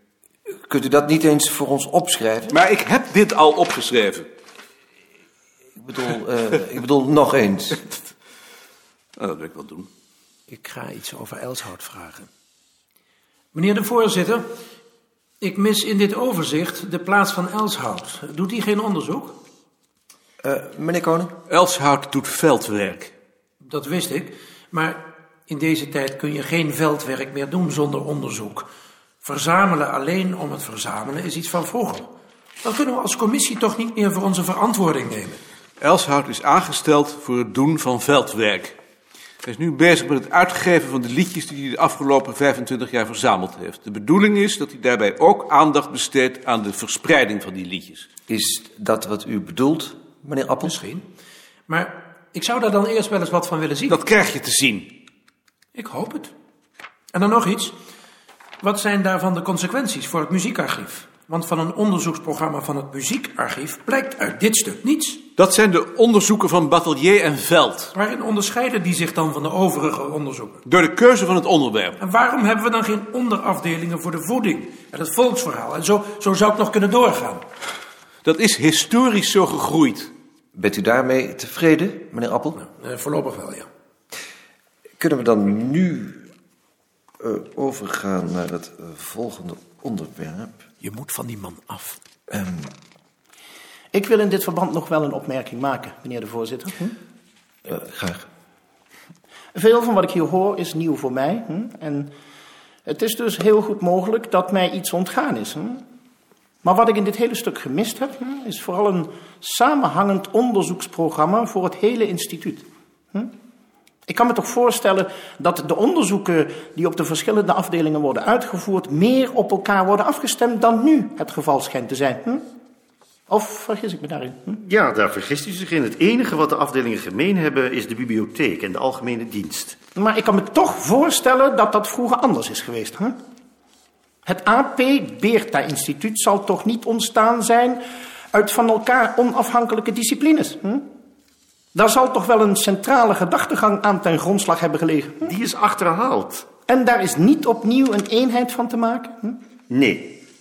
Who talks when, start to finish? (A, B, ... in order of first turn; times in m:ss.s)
0:00.6-0:02.6 A
0:02.5-0:04.3 B
0:05.8-0:07.9 A
0:09.2-0:09.9 B
0:10.5-0:12.3 C
0:13.5-0:14.4 C
0:15.4-0:19.4 C
0:20.4-0:21.4 A
0:21.5-0:23.1 B
0:23.6-0:28.7 C
0:29.2-0:32.0 C
0:32.6-0:35.4 C
0:35.8-0:38.8 B
0:39.4-0:48.1 B
0:48.3-0:50.8 A
0:50.6-0:51.0 C
0:51.7-0:54.0 C
0:53.9-0:55.0 B
0:55.7-0:56.3 C
0:57.1-0:57.7 C
0:58.6-1:05.2 C
1:05.4-1:07.9 B
1:07.9-1:10.6 C
1:10.6-1:12.0 B
1:12.0-1:17.4 C
1:18.2-1:20.1 B
1:20.5-1:22.6 A
1:22.5-1:23.7 C
1:25.0-1:26.3 A
1:27.2-1:30.6 A
1:30.8-1:32.0 C
1:32.3-1:32.7 A
1:33.9-1:37.0 D
1:37.6-1:38.2 A
1:39.5-1:42.1 D
1:42.8-1:45.8 D
1:46.6-1:53.3 D
1:54.0-2:02.4 D
2:03.3-2:04.6 D
2:04.6-2:09.8 E
2:10.0-2:13.2 D
2:14.2-2:20.9 D
2:21.7-2:25.3 D
2:25.3-2:26.4 E
2:26.7-2:29.4 D
2:29.7-2:30.1 E